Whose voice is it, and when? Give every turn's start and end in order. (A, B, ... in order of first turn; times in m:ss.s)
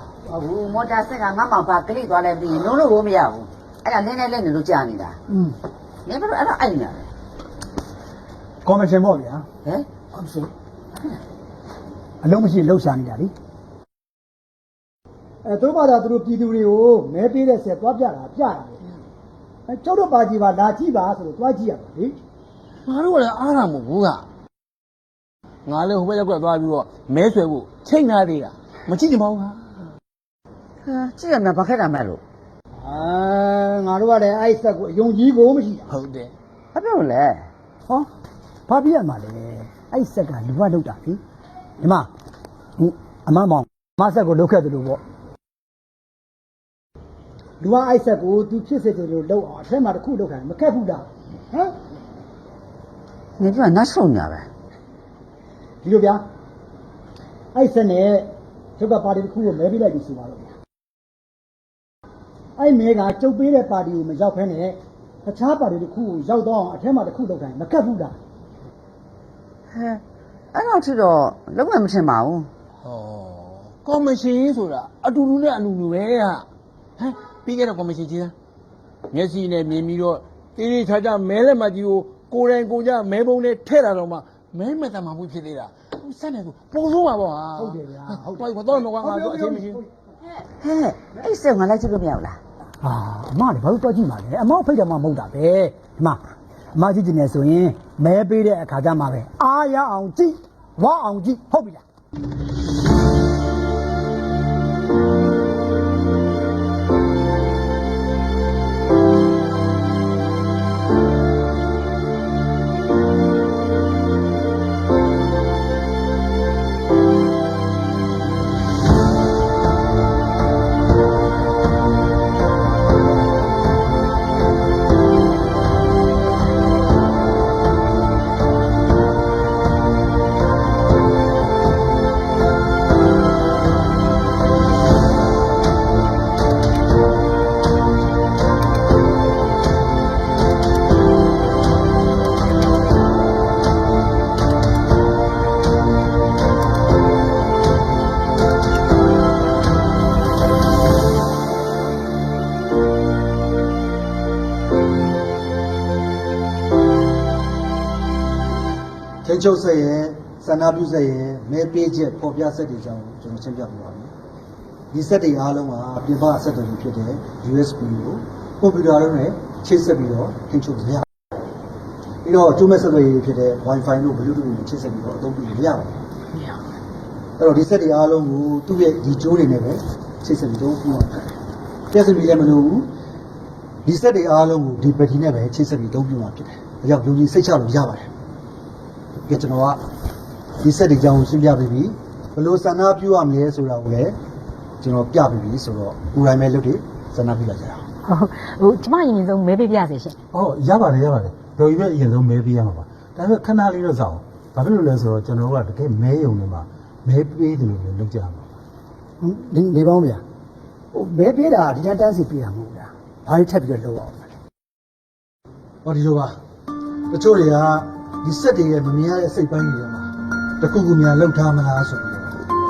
0:00.2-0:05.2 A
0:05.3-0:05.6 B
0:06.0-0:07.1 A
0:08.6-0:09.5 B
0:09.6-0:10.1 A
0:12.2-0:13.3 B
0:15.4-0:18.8 B
0:19.7-0:22.2 B
0:22.9-0:24.3 C
0:25.7-0:29.8 C
0:30.8-0:32.2 A
0:32.8-0:35.9 B
0:35.9-0:36.3 C
0:36.7-0:37.5 A
0:38.7-0:41.2 B
0:41.8-0:42.1 B
0:42.8-0:45.0 B
0:47.6-0:51.7 B
0:53.4-0:54.5 A
0:55.8-0:56.2 B
0:57.5-1:00.5 B
1:02.6-1:08.2 B
1:09.7-1:12.5 A
1:12.8-1:16.5 C
1:17.0-1:18.3 C
1:19.1-1:29.8 C
1:27.6-1:29.8 B
1:30.5-1:32.4 A
1:32.8-1:36.2 B
1:36.7-1:41.8 B
2:39.2-2:44.1 D
2:44.9-2:51.1 D
2:52.2-2:56.0 D
2:57.4-3:01.4 D
3:01.9-3:02.9 D
3:03.8-3:08.1 D
3:09.2-3:09.8 D
3:10.6-3:14.2 D
3:14.8-3:17.9 D
3:18.0-3:20.2 E
3:20.3-3:28.5 F
3:29.2-3:30.2 B
3:30.9-3:34.3 B
3:35.8-3:36.4 D
3:37.1-3:42.4 D